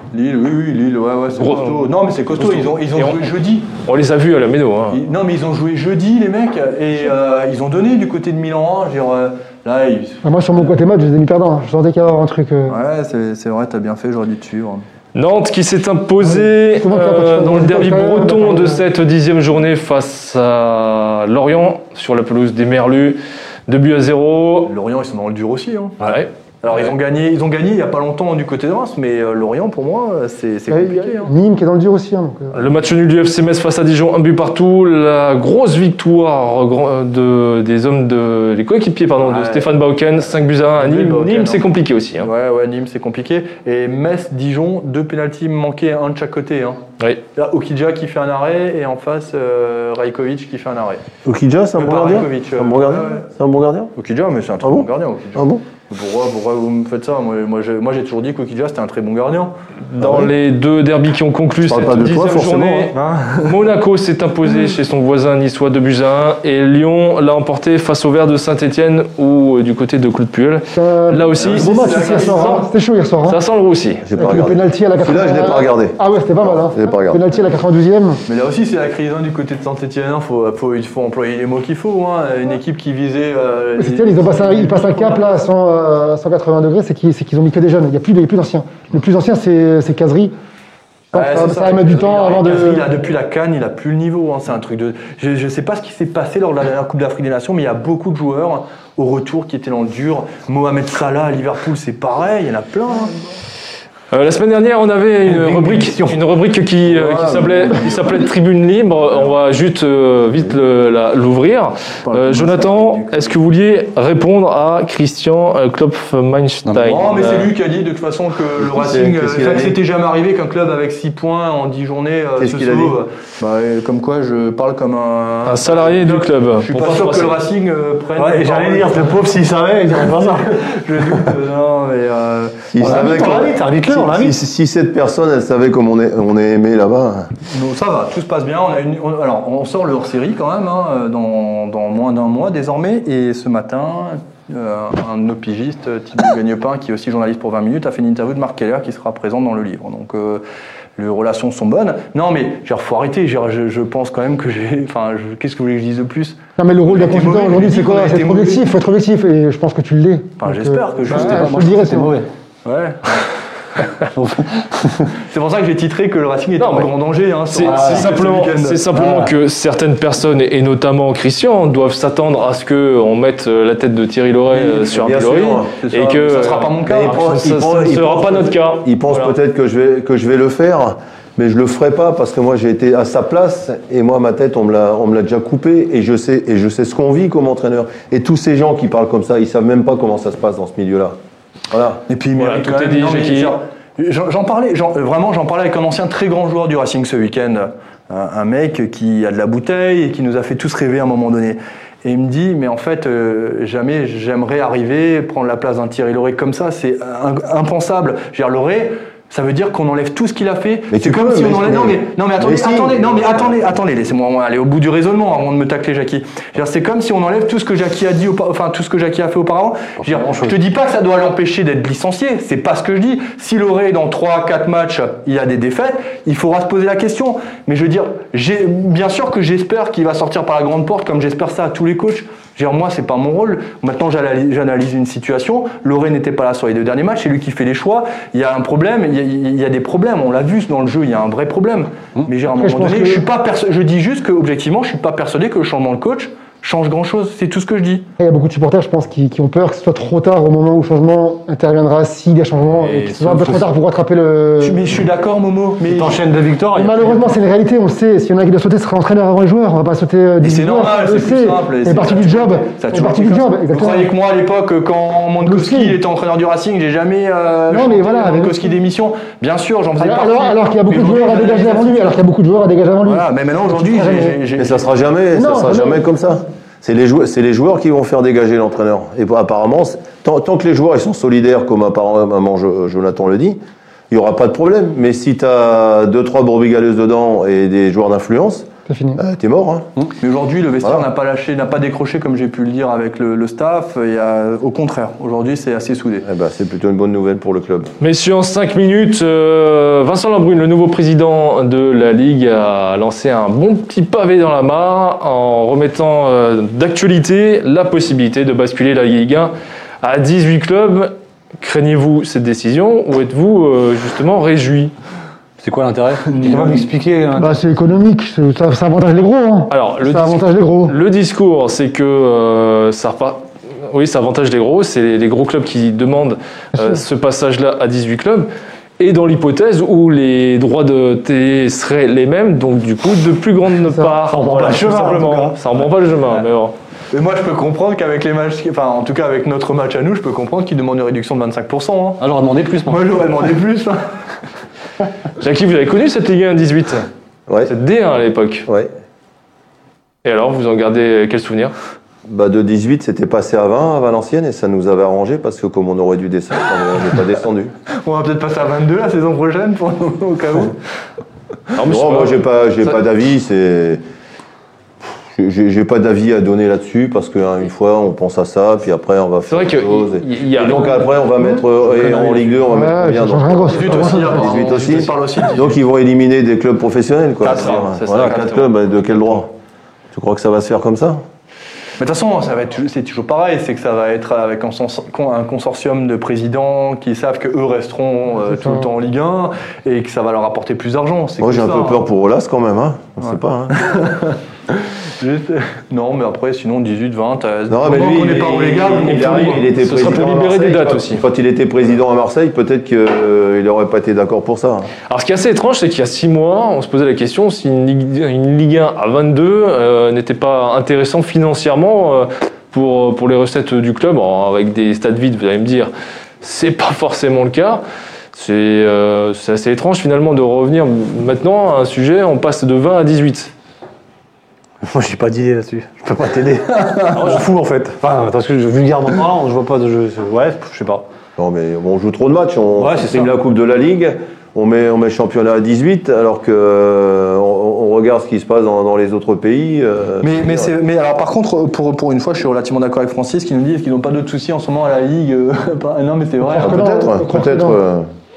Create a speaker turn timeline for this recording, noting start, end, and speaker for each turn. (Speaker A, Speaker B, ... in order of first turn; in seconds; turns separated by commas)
Speaker A: 0.1-3.7, Speaker B: 1.4-3.2, Speaker B: 3.8-5.0, Speaker A: 4.9-10.2, Speaker C: 10.2-12.8, Speaker A: 12.7-14.8, Speaker B: 15.1-24.7, Speaker C: 16.2-18.8, Speaker A: 24.6-31.3, Speaker B: 26.0-26.3, Speaker C: 30.7-32.7, Speaker B: 32.5-42.3, Speaker A: 39.2-39.7, Speaker A: 40.8-41.6, Speaker A: 42.2-46.8, Speaker A: 47.3-51.0, Speaker D: 51.2-53.9, Speaker A: 51.8-53.2, Speaker A: 54.0-59.5, Speaker D: 54.6-55.6, Speaker B: 59.9-72.7, Speaker D: 60.0-60.3, Speaker D: 61.6-62.9, Speaker A: 62.9-63.6, Speaker C: 70.8-73.4, Speaker A: 71.3-72.7, Speaker B: 73.2-74.1, Speaker D: 74.0-77.2, Speaker C: 74.2-78.2, Speaker A: 78.3-85.3, Speaker C: 83.8-90.3, Speaker C: 91.1-92.9, Speaker A: 91.1-103.3, Speaker B: 104.1-117.5, Speaker E: 105.2-106.2, Speaker A: 106.9-108.2, Speaker A: 112.0-113.3, Speaker A: 116.7-129.2, Speaker D: 118.6-119.8, Speaker D: 122.4-123.0, Speaker B: 125.5-127.4, Speaker E: 128.2-131.1, Speaker A: 130.1-133.5, Speaker D: 132.7-137.3, Speaker E: 132.8-134.4, Speaker A: 137.5-150.4, Speaker A: 150.9-158.6, Speaker C: 156.6-162.2, Speaker A: 160.4-161.7, Speaker E: 161.1-162.3, Speaker A: 162.6-163.2, Speaker E: 164.1-165.1, Speaker A: 165.3-168.8, Speaker B: 166.6-166.9, Speaker B: 167.5-179.3, Speaker E: 167.6-168.1, Speaker E: 168.9-169.3, Speaker D: 174.5-175.7, Speaker A: 175.8-177.2, Speaker D: 176.9-191.2, Speaker D: 191.7-192.0, Speaker A: 192.1-248.1, Speaker B: 192.3-193.6, Speaker D: 210.9-213.6, Speaker E: 220.0-220.5, Speaker C: 242.5-243.2, Speaker C: 248.2-254.9, Speaker E: 252.9-253.4, Speaker A: 253.2-253.6, Speaker A: 254.6-256.2, Speaker E: 255.8-257.4, Speaker C: 256.7-264.1, Speaker A: 260.4-272.1, Speaker C: 265.4-266.0, Speaker C: 267.7-268.7, Speaker C: 270.0-274.4, Speaker A: 273.0-274.9, Speaker D: 274.6-283.6, Speaker C: 275.3-276.0, Speaker D: 284.1-289.9, Speaker C: 288.9-289.2, Speaker A: 290.2-296.2, Speaker D: 296.2-297.9, Speaker B: 298.0-314.9, Speaker E: 315.6-317.7, Speaker A: 316.3-316.9, Speaker C: 317.4-320.9, Speaker B: 319.7-328.5, Speaker B: 329.0-336.7, Speaker E: 334.2-335.7, Speaker A: 337.1-342.2, Speaker E: 342.2-343.2, Speaker A: 342.9-344.0, Speaker B: 345.4-347.1, Speaker B: 347.6-348.7, Speaker B: 350.2-351.7, Speaker D: 352.2-357.7, Speaker A: 357.9-360.7, Speaker B: 361.7-362.3, Speaker D: 361.8-364.0, Speaker D: 365.3-379.5, Speaker B: 369.5-371.1, Speaker E: 371.8-372.5, Speaker C: 372.7-374.9, Speaker A: 373.7-375.8, Speaker B: 377.4-378.7, Speaker D: 380.1-381.2, Speaker A: 382.0-392.0, Speaker D: 391.4-393.9, Speaker A: 393.2-400.0, Speaker D: 397.7-404.9, Speaker B: 399.3-401.2, Speaker B: 405.1-415.9, Speaker B: 416.4-417.8, Speaker B: 418.3-423.5, Speaker E: 424.8-431.0, Speaker D: 431.4-440.7, Speaker E: 432.8-433.3, Speaker A: 440.2-446.9, Speaker C: 446.4-447.8, Speaker D: 446.6-448.1